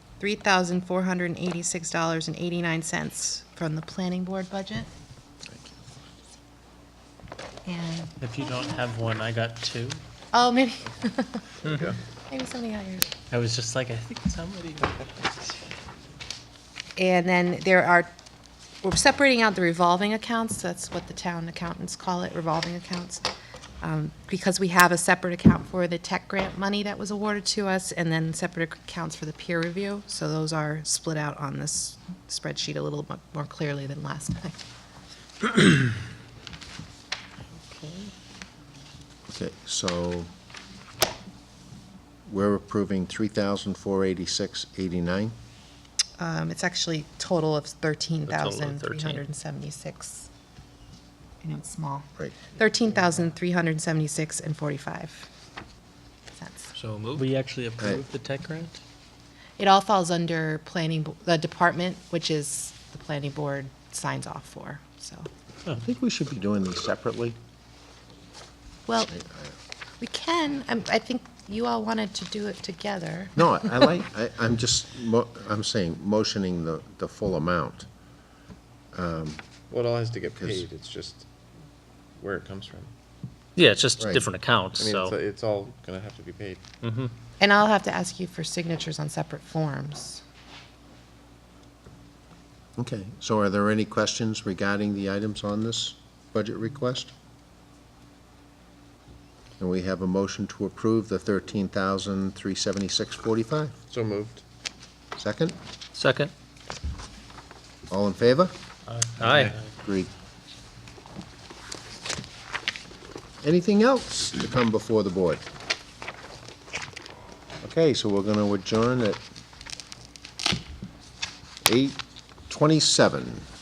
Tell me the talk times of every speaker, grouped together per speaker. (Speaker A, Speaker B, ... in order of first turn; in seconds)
Speaker A: 0.2-4.9, 7.7-8.9, 10.3-11.7, 12.3-13.1, 17.0-18.1, 18.8-23.2, 23.8-34.6, 46.2-50.3, 51.4-55.3, 56.4-56.7, 59.6-65.3, 68.9-69.1, 70.0-73.9, 87.4-90.2
Speaker B: 8.2-10.0, 13.3-15.1, 57.1-58.8, 108.9-109.6
Speaker C: 11.6-11.9, 79.7-81.3, 82.2-82.9, 84.8-86.6, 103.9-104.4
Speaker D: 39.3-40.3, 42.3-45.3, 65.7-67.3, 69.1-69.5, 73.3-77.9, 78.9-79.4, 80.4-80.7, 84.0-84.2, 92.8-97.1, 99.6-103.8, 105.2-105.5, 107.9-108.5, 109.8-110.1, 113.4-115.4, 117.6-119.2, 121.6-123.4
Speaker E: 48.2-49.2, 56.8-57.2, 83.5-85.1, 86.8-87.1, 105.9-106.3, 109.2-109.6